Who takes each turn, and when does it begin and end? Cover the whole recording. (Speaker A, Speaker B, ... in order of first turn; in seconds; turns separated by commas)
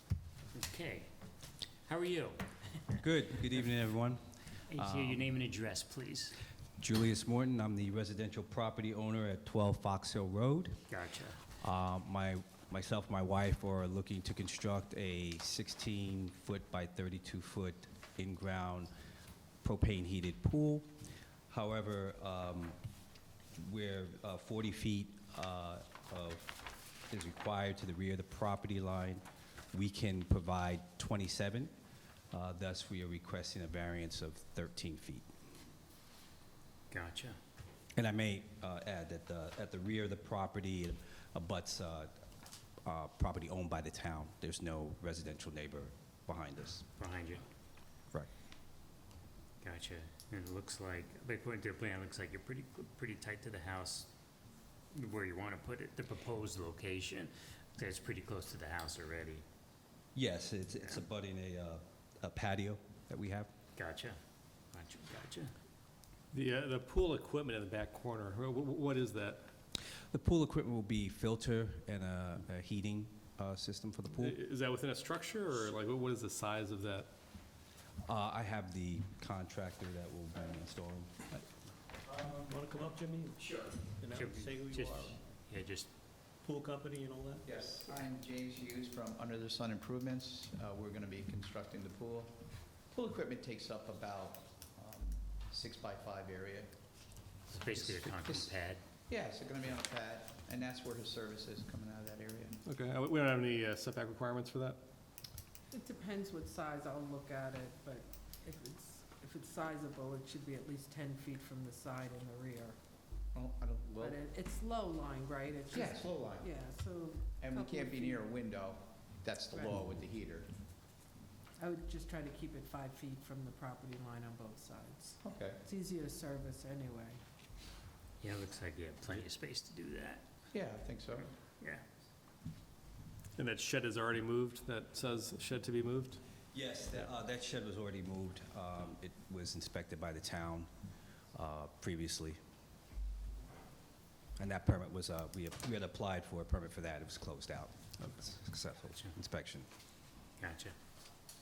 Speaker A: 0.5-1.1, Speaker A: 1.8-3.0, Speaker B: 3.0-4.2, Speaker A: 4.7-6.4, Speaker B: 4.7-5.2, Speaker B: 6.8-10.8, Speaker A: 10.9-11.4, Speaker B: 11.6-18.9, Speaker B: 19.6-20.9, Speaker B: 21.5-22.8, Speaker B: 23.5-26.6, Speaker B: 27.1-31.7, Speaker B: 32.3-35.3, Speaker A: 36.9-37.4, Speaker B: 38.0-42.2, Speaker B: 42.8-46.9, Speaker A: 47.0-47.4, Speaker A: 49.6-54.1, Speaker A: 54.9-59.4, Speaker B: 60.1-63.5, Speaker A: 63.7-64.2, Speaker A: 64.7-65.5, Speaker C: 66.3-69.5, Speaker B: 70.0-74.4, Speaker C: 74.1-77.1, Speaker B: 78.0-81.1, Speaker D: 82.1-82.6, Speaker E: 82.4-85.2, Speaker D: 83.4-83.7, Speaker A: 84.1-85.9, Speaker E: 86.4-87.4, Speaker D: 87.4-96.7, Speaker A: 97.5-98.8, Speaker D: 98.0-98.5, Speaker D: 99.1-102.6, Speaker C: 102.6-104.8, Speaker F: 105.7-112.8, Speaker D: 113.3-114.2, Speaker F: 114.0-118.3, Speaker D: 115.7-116.5, Speaker D: 117.4-120.5, Speaker F: 121.6-127.2, Speaker D: 125.2-125.6, Speaker A: 128.2-130.2, Speaker D: 130.5-131.3, Speaker A: 131.6-131.8, Speaker C: 133.3-136.2, Speaker B: 136.5-140.7, Speaker B: 141.3-142.4, Speaker B: 144.4-149.7, Speaker A: 150.4-150.7